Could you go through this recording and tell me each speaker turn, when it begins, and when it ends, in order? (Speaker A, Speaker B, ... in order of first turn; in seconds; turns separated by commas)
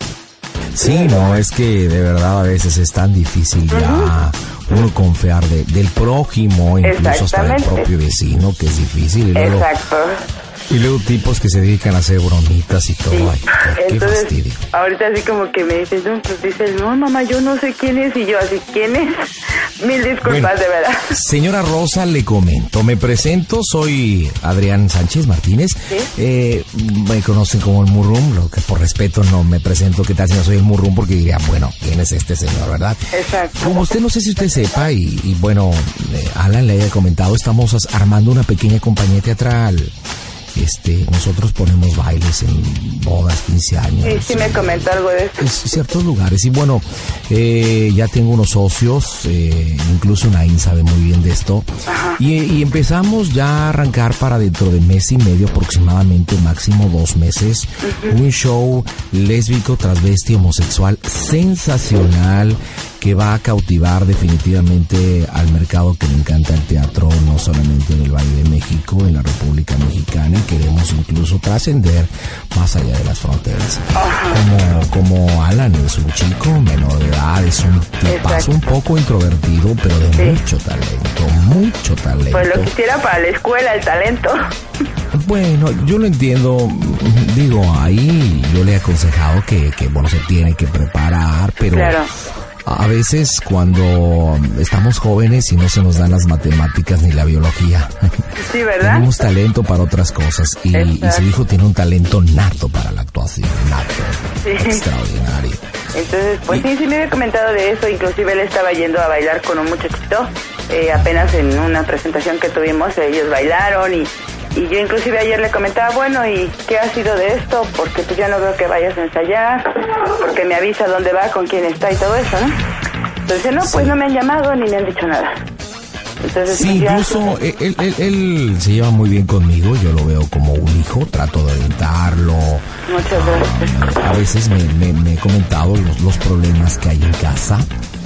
Speaker A: 0.7-9.7, Speaker B: 0.8-1.3, Speaker B: 3.7-4.1, Speaker B: 6.8-7.9, Speaker B: 9.3-10.2, Speaker A: 10.7-14.6, Speaker B: 13.1-21.1, Speaker A: 20.2-20.6, Speaker A: 21.1-33.0, Speaker B: 33.1-33.8, Speaker A: 33.6-39.9, Speaker A: 40.5-44.9, Speaker B: 44.0-45.4, Speaker A: 45.4-82.7, Speaker B: 51.9-52.2, Speaker B: 57.9-58.1, Speaker B: 74.0-74.4, Speaker B: 78.1-78.5, Speaker B: 82.3-84.4, Speaker A: 85.1-92.0, Speaker B: 91.7-92.1, Speaker A: 92.7-98.2, Speaker B: 98.4-99.1, Speaker A: 98.8-105.6, Speaker B: 100.7-101.2, Speaker B: 104.4-104.8, Speaker B: 105.9-122.6, Speaker B: 123.3-125.3, Speaker A: 123.6-124.0, Speaker B: 126.2-127.3, Speaker A: 126.5-137.7, Speaker B: 132.9-133.7